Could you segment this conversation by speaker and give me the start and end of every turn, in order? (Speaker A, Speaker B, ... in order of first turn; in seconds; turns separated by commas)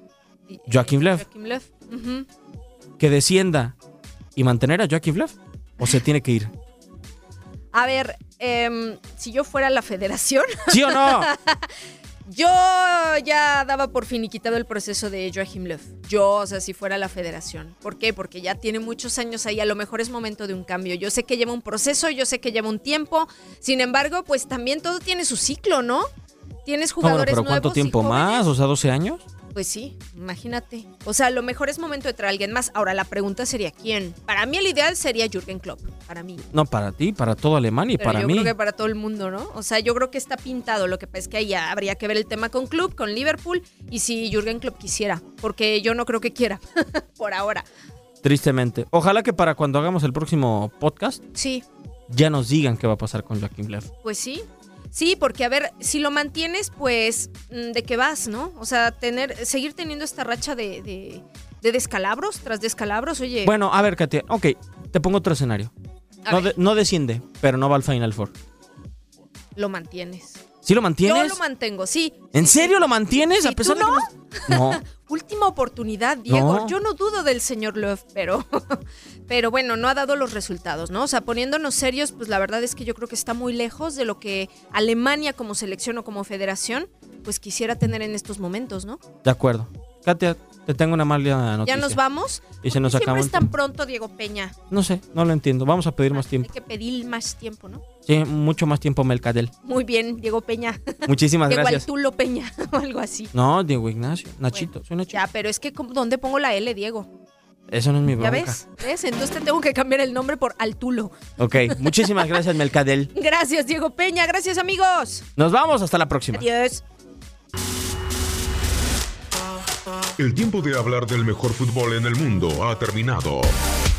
Speaker A: 0.5-2.3, Speaker B: 0.7-1.2, Speaker B: 3.0-3.7, Speaker B: 4.3-6.5, Speaker A: 7.7-11.7, Speaker B: 10.7-11.3, Speaker A: 12.2-26.1, Speaker A: 26.6-28.5, Speaker B: 27.0-29.2, Speaker A: 29.5-36.4, Speaker B: 36.5-38.5, Speaker A: 38.0-47.6, Speaker B: 48.2-51.2, Speaker A: 51.3-51.6, Speaker B: 52.1-53.9, Speaker A: 54.0-63.5, Speaker B: 63.4-65.7, Speaker A: 66.2-66.5, Speaker B: 66.3-68.3, Speaker A: 69.5-70.4, Speaker B: 70.6-71.4, Speaker A: 71.0-72.8, Speaker B: 72.3-74.8, Speaker A: 73.3-89.0, Speaker B: 76.3-76.8, Speaker B: 89.2-92.0, Speaker A: 91.7-94.5, Speaker B: 92.6-93.5, Speaker B: 94.7-96.5, Speaker A: 96.1-97.8, Speaker B: 98.0-99.5, Speaker A: 99.6-103.3, Speaker B: 101.0-101.8, Speaker B: 103.3-105.2, Speaker A: 104.5-107.1, Speaker B: 107.7-108.6, Speaker A: 108.2-112.4, Speaker B: 111.4-113.1, Speaker A: 113.1-115.2, Speaker B: 115.4-116.4, Speaker A: 116.3-116.8, Speaker C: 120.2-123.6